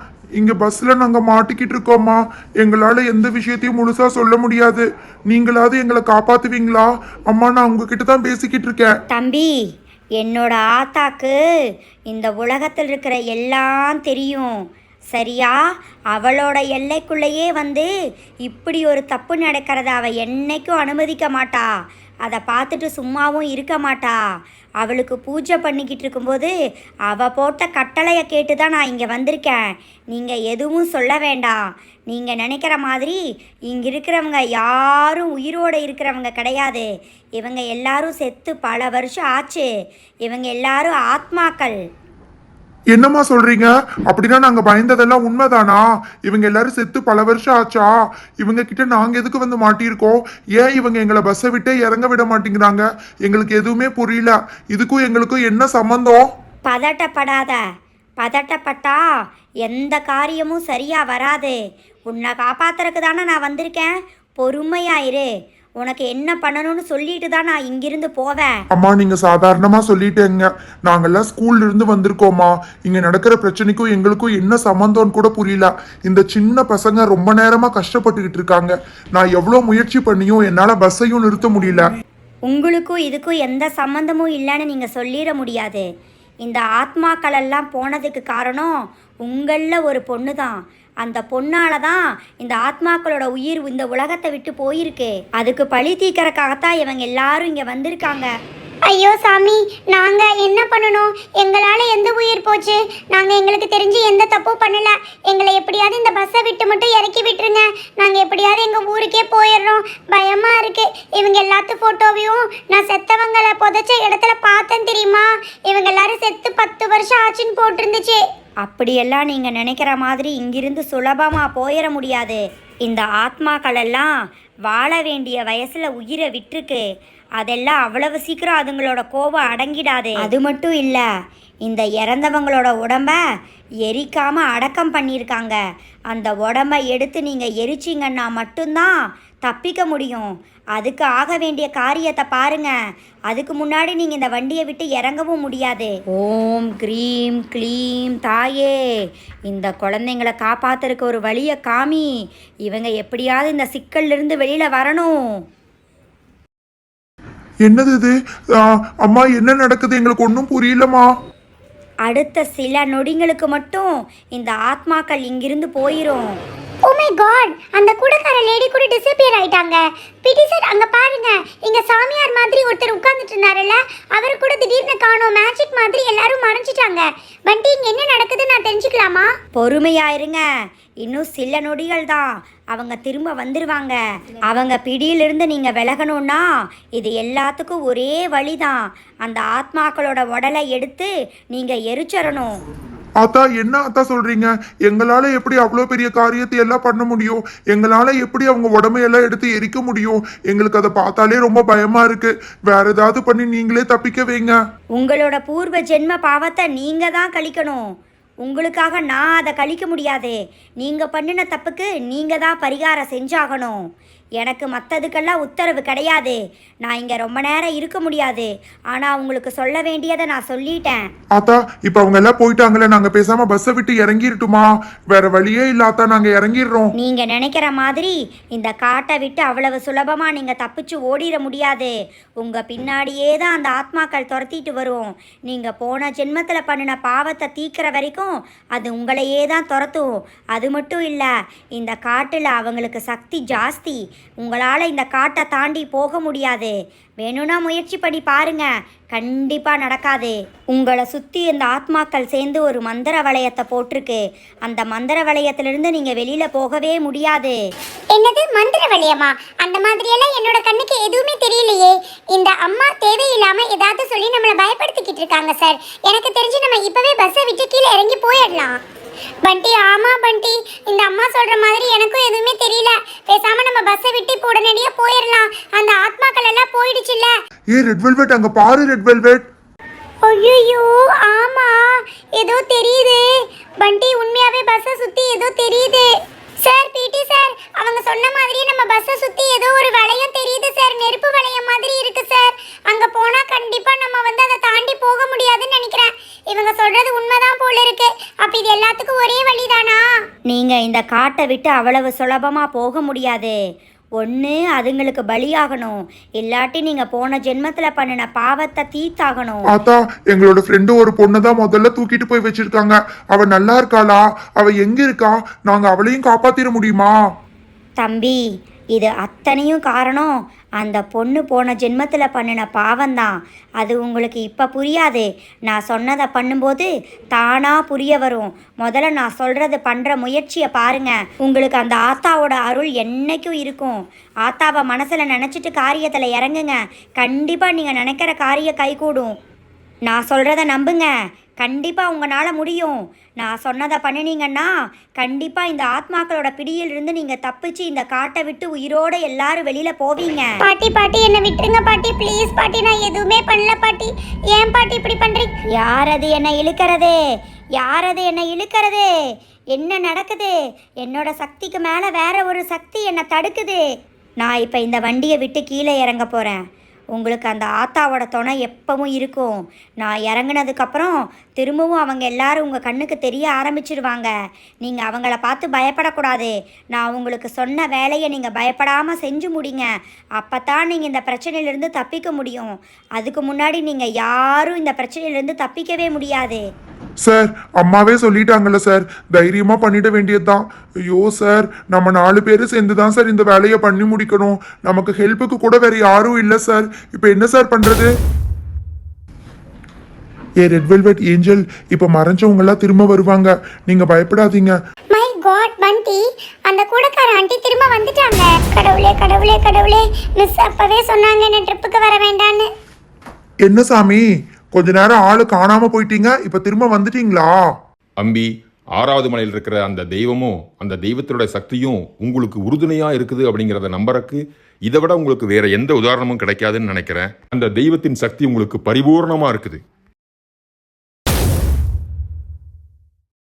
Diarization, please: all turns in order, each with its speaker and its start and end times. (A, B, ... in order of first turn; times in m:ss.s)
0:00.4-0:08.9 A
0:09.1-0:09.6 B
0:10.2-0:11.4 B
0:12.1-0:14.6 B
0:15.1-0:15.6 B
0:16.1-0:17.9 B
0:18.4-0:21.7 B
0:22.2-0:24.2 B
0:24.8-0:26.5 B
0:27.1-0:33.2 B
0:33.7-0:36.9 B
0:37.4-0:39.7 B
0:40.2-0:41.8 B
0:42.9-0:56.3 A
0:56.6-0:57.6 B
0:58.2-0:59.0 B
0:59.6-1:05.3 B
1:05.8-1:08.5 B
1:08.7-1:21.8 A
1:22.4-1:25.8 B
1:26.4-1:38.3 B
1:38.9-1:58.2 C
1:58.6-2:04.1 B
2:04.7-2:06.8 B
2:07.4-2:11.0 B
2:11.6-2:13.2 B
2:13.9-2:15.6 B
2:16.1-2:18.9 B
2:19.4-2:22.7 B
2:23.3-2:32.1 B
2:32.7-2:35.4 B
2:37.6-2:41.1 A
2:42.1-2:46.4 B
2:46.8-2:59.3 C
2:59.5-3:00.4 B
3:01.0-3:04.0 B
3:04.5-3:12.6 B
3:13.2-3:24.5 A
3:24.9-3:27.9 B
3:28.4-3:33.8 B
3:34.4-3:41.0 B
3:41.3-3:46.9 A
3:47.0-4:17.6 B
4:18.1-4:28.8 C
4:29.4-4:37.3 C
4:37.7-4:39.4 A
4:40.2-4:41.8 C
4:42.4-4:43.2 C
4:43.8-4:46.1 C
4:46.6-5:00.0 C
5:00.5-5:03.6 B
5:04.2-5:09.6 B
5:09.7-5:17.1 A
5:18.0-5:18.4 B
5:18.9-5:39.3 B
5:40.1-5:50.5 B
5:50.6-5:55.5 C
5:55.7-5:57.2 B
5:57.8-5:59.0 B
5:59.7-6:03.8 B
6:04.4-6:06.6 B
6:07.1-6:26.6 B
6:27.2-6:38.1 A
6:40.6-6:44.8 A
6:45.1-6:52.7 C
6:53.6-6:54.2 A
6:54.7-6:57.5 A
6:58.2-7:09.8 D